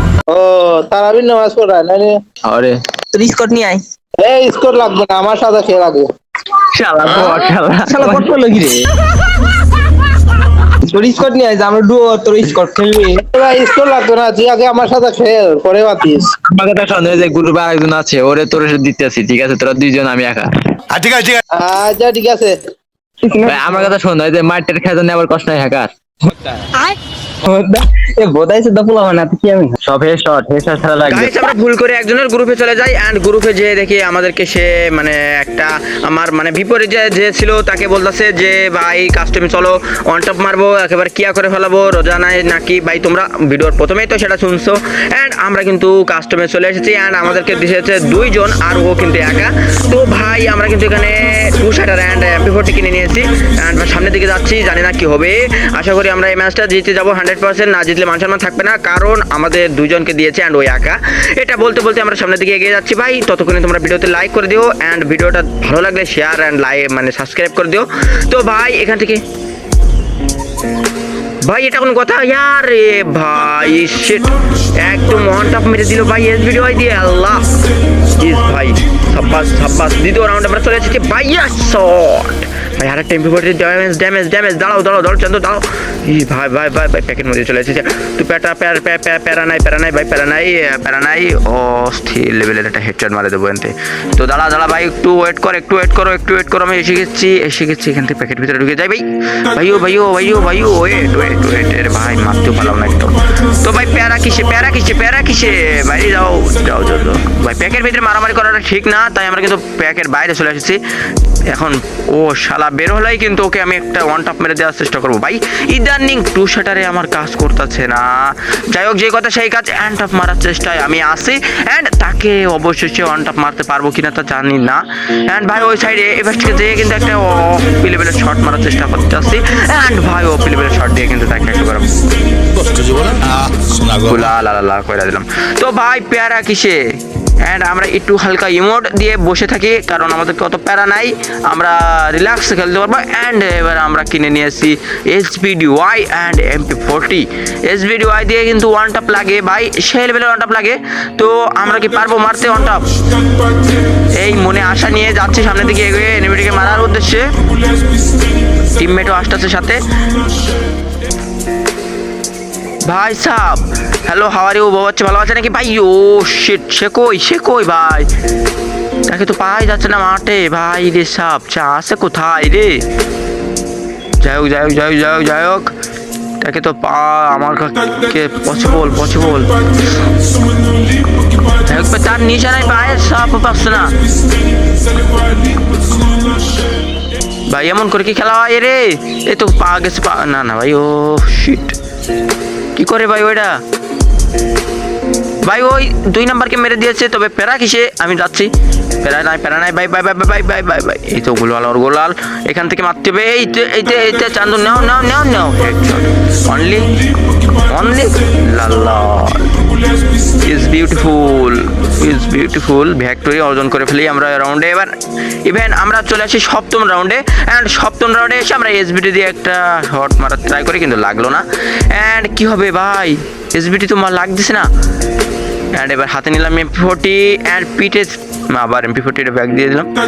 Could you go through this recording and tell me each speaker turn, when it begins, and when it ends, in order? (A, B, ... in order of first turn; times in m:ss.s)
0:00.3-0:02.1 A
0:02.5-0:02.8 B
0:03.1-0:03.8 C
0:04.2-0:06.0 A
0:06.8-0:08.4 B
0:07.1-0:08.8 C
0:10.9-0:13.2 C
0:10.9-0:13.0 B
0:13.3-0:16.2 A
0:16.5-0:20.5 B
0:20.9-0:21.4 D
0:21.6-0:22.6 A
0:23.2-0:23.9 C
0:23.4-0:25.9 B
0:27.5-0:31.3 B
0:28.8-0:29.6 C
0:31.1-1:09.2 E
1:11.5-1:17.4 E
1:18.2-1:39.0 E
1:39.5-1:50.8 E
1:51.5-2:12.0 E
2:12.6-2:14.2 D
2:14.1-2:16.8 E
2:17.5-2:32.8 E
2:34.2-2:37.2 E
2:38.8-2:39.8 E
2:42.9-2:48.1 E
2:49.1-2:52.8 E
2:54.2-2:55.7 E
2:56.4-2:59.6 E
3:01.6-3:03.9 E
3:07.5-3:11.8 E
3:12.8-3:13.5 E
3:15.4-3:18.5 E
3:19.0-3:26.9 E
3:27.7-3:29.5 E
3:30.4-3:34.9 E
3:35.5-3:44.7 E
3:45.8-3:49.9 E